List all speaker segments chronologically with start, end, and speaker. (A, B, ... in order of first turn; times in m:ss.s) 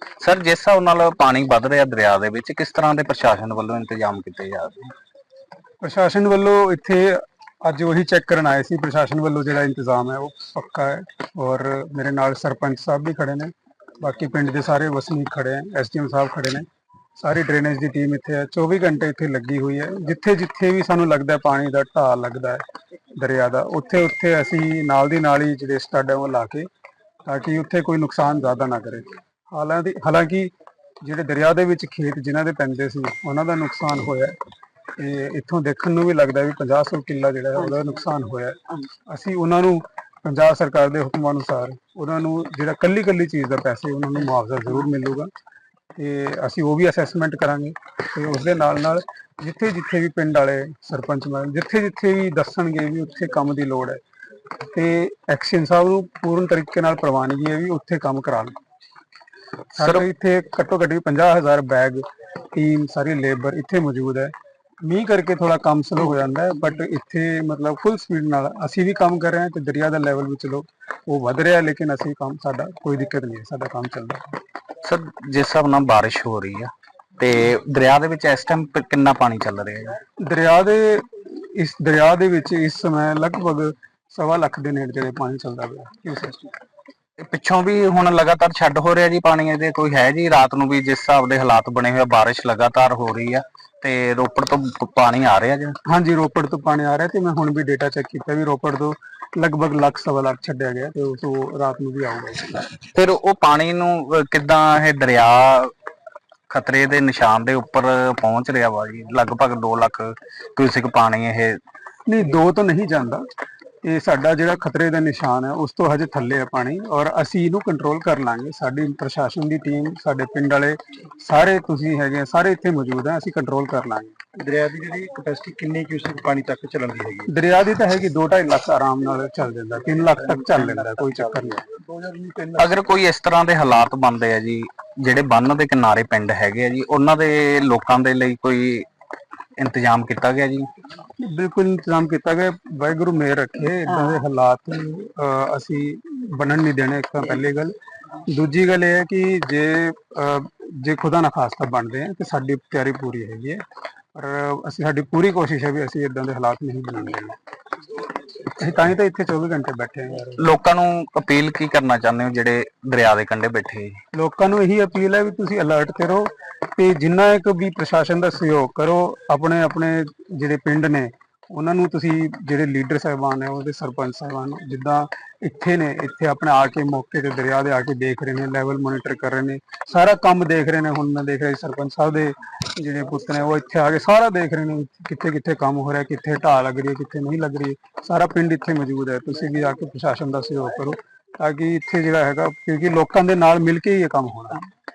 0:00.2-0:04.9 A
0:05.8-0:16.7 B
0:17.2-0:22.6 B
0:23.2-0:26.7 B
0:27.2-0:34.4 B
0:35.0-0:38.6 B
0:39.1-0:45.3 B
0:46.0-0:54.0 B
0:54.7-0:58.6 B
0:59.8-1:14.3 B
0:59.8-1:00.0 A
1:14.8-1:20.0 A
1:20.2-1:26.6 B
1:27.2-1:35.8 A
1:35.9-1:42.7 B
1:42.9-1:45.7 A
1:46.5-1:51.6 A
1:52.1-1:53.3 B
1:53.8-2:04.2 B
2:04.4-2:07.3 C
2:07.3-2:11.6 B
2:10.1-2:12.8 C
2:12.6-2:18.9 A
2:19.6-2:20.7 A
2:21.2-2:27.8 B
2:28.3-2:33.6 B
2:34.2-2:37.4 B
2:38.6-2:40.4 B
2:40.4-2:44.0 A
2:44.1-3:14.6 B